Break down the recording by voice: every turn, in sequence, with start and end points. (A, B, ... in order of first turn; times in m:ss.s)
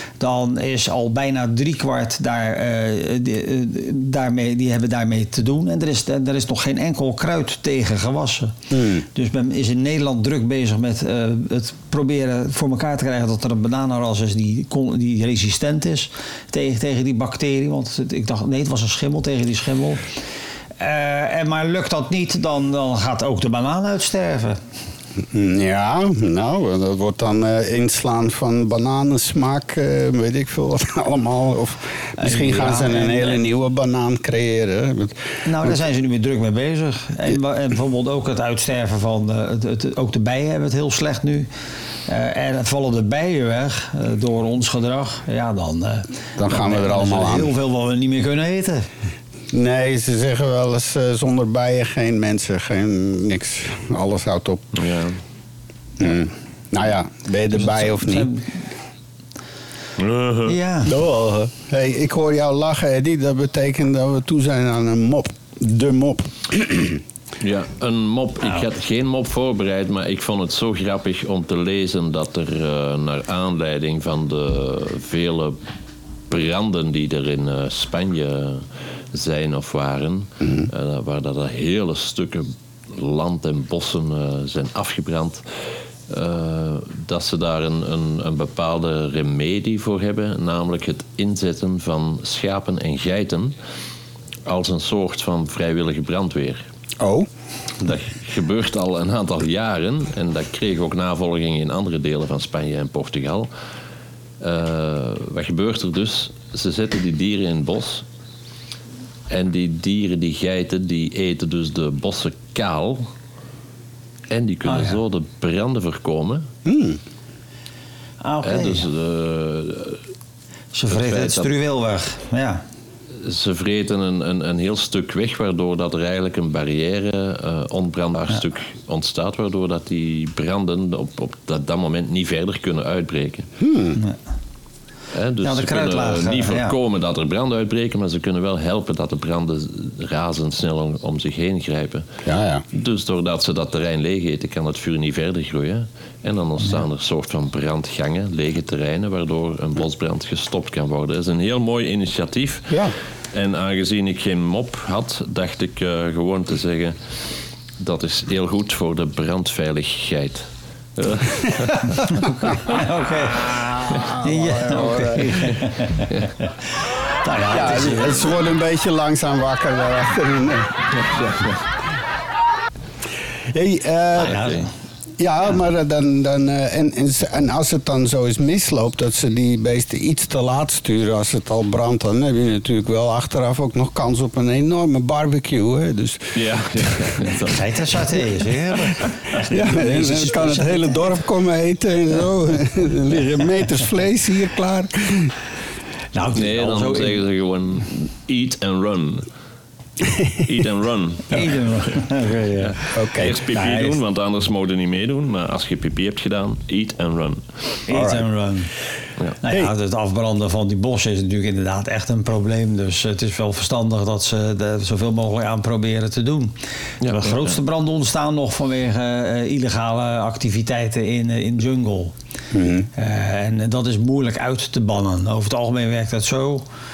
0:00.2-0:08.5 A
0:08.7-0:09.1 B
0:09.1-0:20.0 A
0:20.8-0:24.6 A
0:25.3-0:35.8 B
0:32.2-0:33.4 A
0:35.4-0:41.5 A
0:42.1-0:48.9 A
0:46.4-0:47.5 B
0:49.5-0:54.6 B
0:54.7-0:55.2 C
0:56.0-0:58.3 B
0:57.5-0:58.6 A
1:00.0-1:00.6 C
1:00.5-1:01.0 A
1:00.8-1:07.0 B
1:07.4-1:15.6 C
1:16.3-1:25.4 C
1:20.4-1:20.7 B
1:26.1-1:33.6 C
1:34.4-1:36.6 C
1:37.0-1:37.3 B
1:37.8-1:43.5 C
1:44.4-1:48.0 C
1:49.3-1:53.1 C
1:54.3-1:56.5 C
1:54.6-1:55.0 A
1:56.6-1:57.0 B
1:58.2-1:58.9 A
1:58.4-2:00.0 C
2:00.7-2:02.6 A
2:00.9-2:01.5 C
2:03.2-2:13.5 C
2:13.6-2:14.0 B
2:15.1-2:22.0 C
2:15.4-2:16.7 A
2:22.2-2:22.6 B
2:22.7-2:37.0 C
2:37.8-2:42.0 C
2:41.7-2:46.6 A
2:43.5-2:45.4 B
2:47.2-2:48.2 A
2:47.5-2:50.7 B
2:50.9-2:51.6 C
2:53.5-2:54.5 B
2:54.1-2:54.7 A
2:55.2-3:07.3 B
3:06.3-3:08.2 C
3:07.4-3:11.1 A
3:09.5-3:15.3 B
3:16.1-3:17.2 A
3:16.3-3:19.3 C
3:20.0-3:20.4 B
3:20.4-3:21.5 C
3:21.3-3:22.8 A
3:22.6-3:27.4 C
3:22.9-3:23.4 B
3:23.5-3:23.9 A
3:27.9-3:28.7 A
3:27.9-3:28.2 B
3:29.4-3:42.1 A
3:37.0-3:37.6 C
3:42.5-3:42.9 B
3:43.0-3:46.6 A